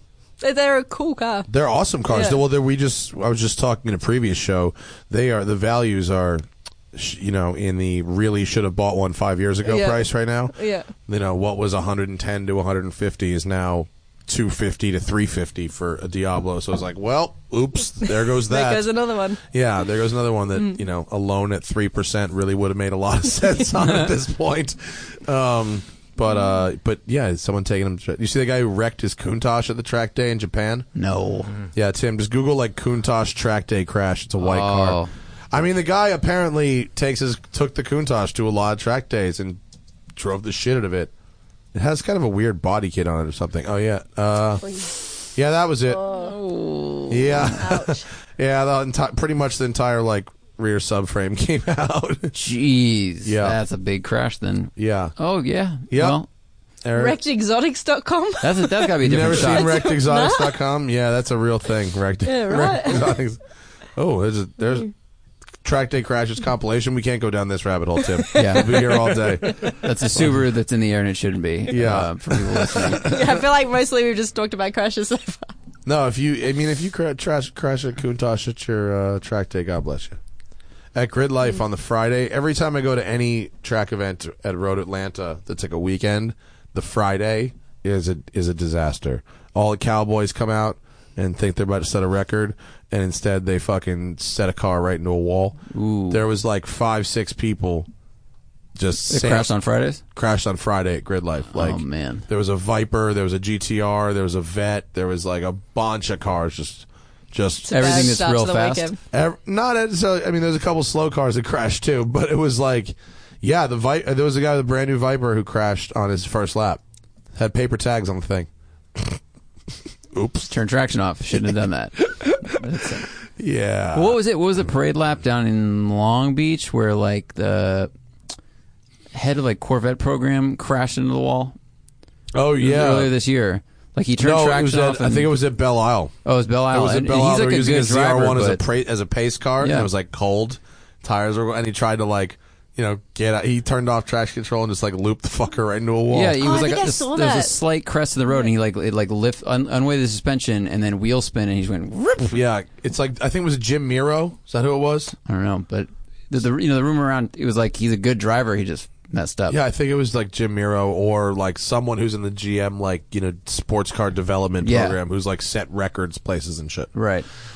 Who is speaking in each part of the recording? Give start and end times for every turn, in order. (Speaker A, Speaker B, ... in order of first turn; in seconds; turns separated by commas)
Speaker A: 0.4-1.5, Speaker B: 1.5-10.5, Speaker A: 2.1-2.4, Speaker A: 9.6-10.9, Speaker B: 11.1-18.9, Speaker A: 18.1-19.4, Speaker B: 19.5-30.9, Speaker C: 30.9-31.6, Speaker B: 31.7-35.0, Speaker C: 34.4-35.1, Speaker B: 35.5-39.6, Speaker B: 40.1-41.1, Speaker B: 41.7-46.1, Speaker A: 45.9-48.0, Speaker B: 47.1-52.4, Speaker C: 52.3-56.3, Speaker B: 53.2-53.6, Speaker B: 54.8-55.1, Speaker B: 55.9-56.2, Speaker B: 56.8-57.2, Speaker A: 56.9-60.6, Speaker C: 58.4-59.9, Speaker B: 59.0-63.4, Speaker A: 62.2-63.2, Speaker B: 63.9-64.9, Speaker B: 65.6-70.2, Speaker A: 68.3-69.7, Speaker C: 68.3-73.2, Speaker B: 71.7-73.2, Speaker A: 72.9-75.5, Speaker B: 75.8-80.2, Speaker B: 80.9-95.6, Speaker C: 95.7-96.2, Speaker B: 96.1-97.9, Speaker B: 98.8-99.5, Speaker C: 99.1-100.0, Speaker B: 100.1-108.1, Speaker C: 101.5-102.2, Speaker A: 107.7-109.0, Speaker C: 107.7-108.9, Speaker B: 109.1-116.8, Speaker B: 117.3-119.2, Speaker B: 120.1-120.5, Speaker C: 120.5-123.1, Speaker B: 122.0-122.5, Speaker B: 123.4-124.2, Speaker C: 123.9-127.9, Speaker C: 129.1-131.6, Speaker B: 132.3-133.1, Speaker C: 132.6-135.3, Speaker B: 134.2-136.1, Speaker C: 136.2-138.6, Speaker B: 136.7-146.4, Speaker C: 139.6-139.9, Speaker C: 146.1-152.3, Speaker A: 146.4-147.5, Speaker B: 152.3-155.1, Speaker C: 155.2-159.6, Speaker B: 159.5-166.9, Speaker C: 164.6-165.0, Speaker C: 166.9-167.2